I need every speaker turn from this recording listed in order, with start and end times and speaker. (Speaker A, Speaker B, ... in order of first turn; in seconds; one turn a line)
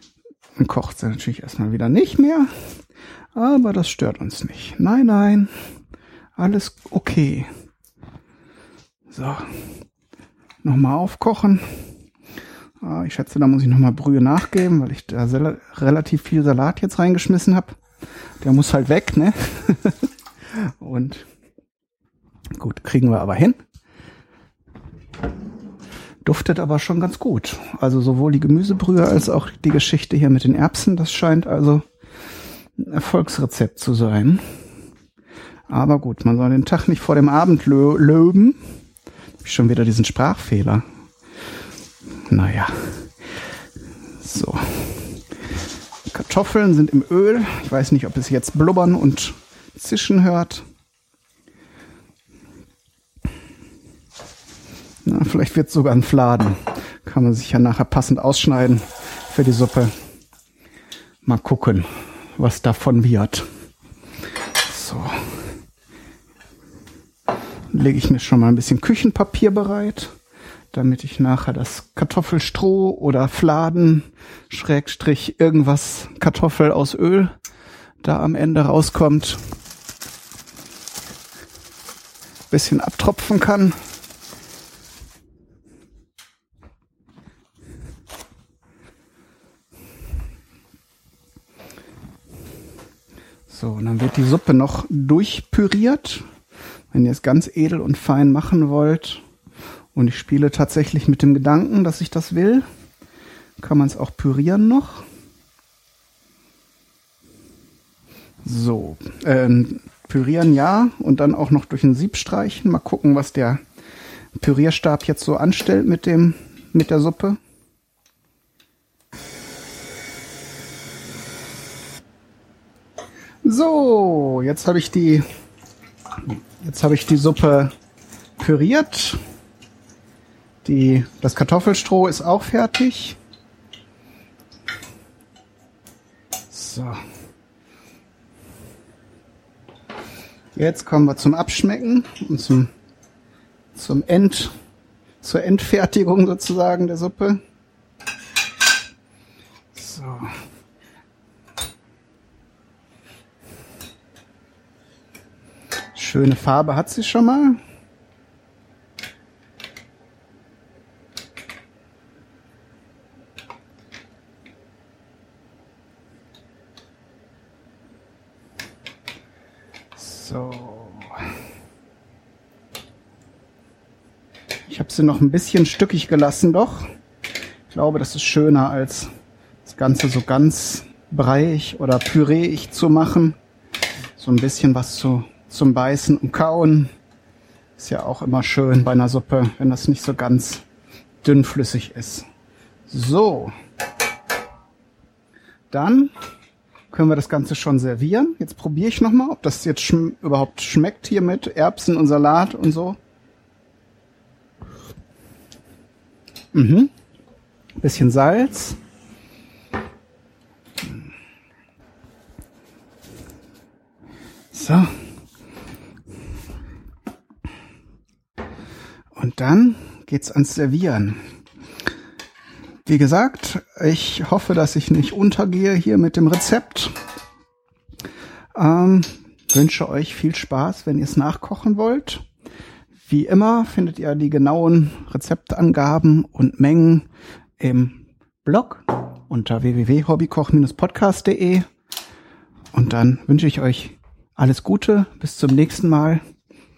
Speaker A: 0.6-2.5
Speaker A: 3.3-5.5
Speaker A: 6.4-7.5
Speaker A: 9.1-9.5
Speaker A: 10.6-11.7
Speaker A: 12.8-17.8
Speaker A: 18.4-20.0
Speaker A: 20.6-21.2
Speaker A: 22.5-23.6
Speaker A: 26.2-31.8
Speaker A: 32.8-34.4
Speaker A: 35.7-38.6
Speaker A: 39.4-40.8
Speaker A: 42.3-43.1
Speaker A: 44.2-45.2
Speaker A: 46.1-50.6
Speaker A: 55.0-59.9
Speaker A: 61.2-63.5
Speaker A: 64.6-65.2
Speaker A: 67.7-70.1
Speaker A: 70.7-77.3
Speaker A: 78.0-79.4
Speaker A: 82.5-83.8
Speaker A: 93.5-96.2
Speaker A: 96.9-99.2
Speaker A: 99.9-102.7
Speaker A: 103.6-105.0
Speaker A: 108.4-113.6
Speaker A: 114.4-117.4
Speaker A: 123.4-125.2
Speaker A: 126.6-127.7
Speaker A: 128.4-129.2
Speaker A: 130.6-133.2
Speaker A: 136.5-137.0
Speaker A: 140.5-142.7
Speaker A: 143.7-144.5
Speaker A: 145.2-147.4
Speaker A: 149.7-150.3
Speaker A: 155.9-157.6
Speaker A: 169.9-171.2
Speaker A: 174.7-176.9
Speaker A: 177.7-179.1
Speaker A: 179.6-183.4
Speaker A: 184.2-186.9
Speaker A: 187.8-190.6
Speaker A: 191.2-192.2
Speaker A: 192.9-193.5
Speaker A: 195.7-196.1
Speaker A: 196.9-203.0
Speaker A: 206.5-206.9
Speaker A: 207.8-208.8
Speaker A: 214.5-214.9
Speaker A: 219.2-221.2
Speaker A: 222.8-226.9
Speaker A: 228.5-232.2
Speaker A: 233.1-237.1
Speaker A: 237.6-241.6
Speaker A: 242.7-246.2